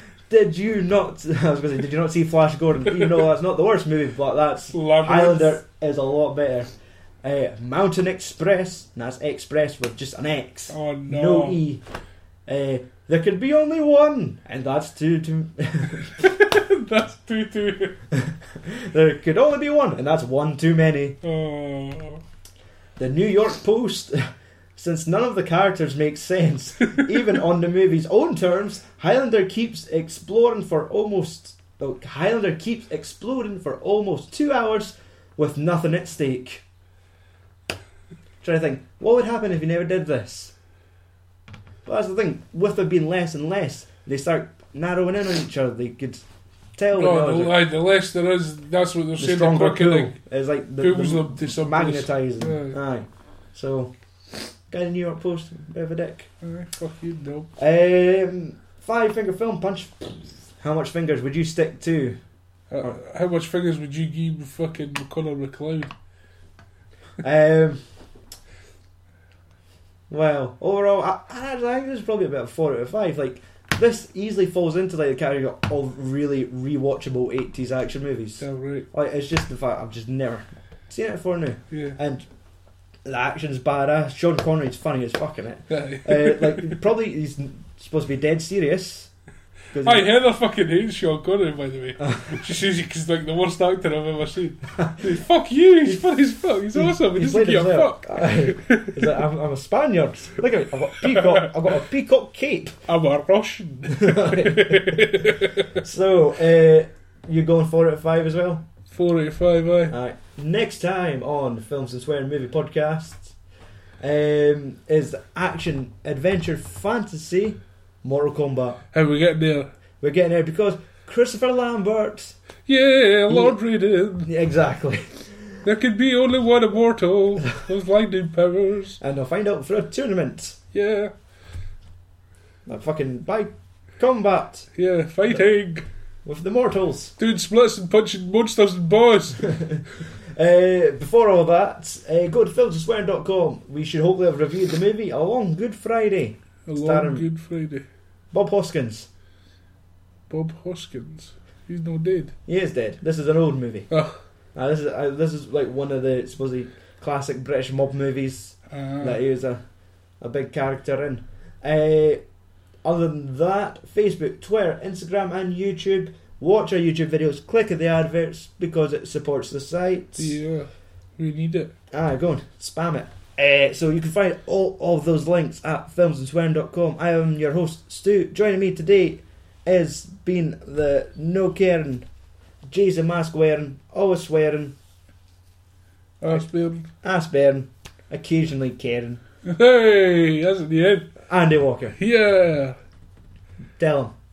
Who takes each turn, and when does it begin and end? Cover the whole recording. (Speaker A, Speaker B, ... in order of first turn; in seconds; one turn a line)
Speaker A: 0.3-6.7
Speaker B: 4.7-5.6
Speaker A: 7.2-11.8
Speaker B: 10.7-11.6
Speaker A: 12.5-16.2
Speaker B: 16.2-18.0
Speaker A: 18.1-21.2
Speaker B: 21.2-22.2
Speaker A: 23.0-24.2
Speaker A: 24.8-36.6
Speaker A: 38.4-40.5
Speaker A: 41.8-46.2
Speaker A: 46.8-47.5
Speaker B: 46.9-50.2
Speaker A: 49.2-53.9
Speaker B: 50.8-52.8
Speaker A: 54.7-56.3
Speaker B: 56.4-57.5
Speaker A: 57.6-62.2
Speaker B: 62.7-65.9
Speaker A: 67.2-67.8
Speaker A: 70.1-82.2
Speaker B: 78.4-78.9
Speaker B: 81.7-82.0
Speaker A: 83.0-89.1
Speaker B: 85.7-86.8
Speaker A: 89.7-90.1
Speaker B: 89.8-99.1
Speaker A: 96.7-102.8
Speaker B: 101.0-101.5
Speaker B: 102.9-105.7
Speaker A: 103.9-108.6
Speaker B: 108.9-109.9
Speaker A: 109.9-113.3
Speaker A: 114.0-118.8
Speaker B: 118.9-119.7
Speaker A: 120.0-122.3
Speaker B: 122.7-124.3
Speaker A: 123.3-123.6
Speaker A: 124.2-125.3
Speaker B: 125.6-129.0
Speaker A: 129.0-130.6
Speaker B: 130.7-131.1
Speaker A: 132.7-134.7
Speaker B: 134.8-135.9
Speaker A: 136.2-137.1
Speaker B: 137.2-139.4
Speaker A: 139.4-139.8
Speaker A: 140.3-147.2
Speaker B: 146.7-147.8
Speaker A: 148.3-149.1
Speaker B: 150.3-152.3
Speaker A: 152.4-153.9
Speaker B: 153.9-154.2
Speaker A: 154.5-159.6
Speaker B: 158.7-159.2
Speaker A: 160.2-162.2
Speaker A: 162.8-170.4
Speaker B: 170.2-171.7
Speaker A: 171.9-182.1
Speaker A: 182.7-184.8
Speaker B: 186.2-186.9
Speaker A: 187.0-189.2
Speaker B: 189.4-191.1
Speaker A: 191.3-191.9
Speaker B: 192.0-192.8
Speaker A: 193.8-194.1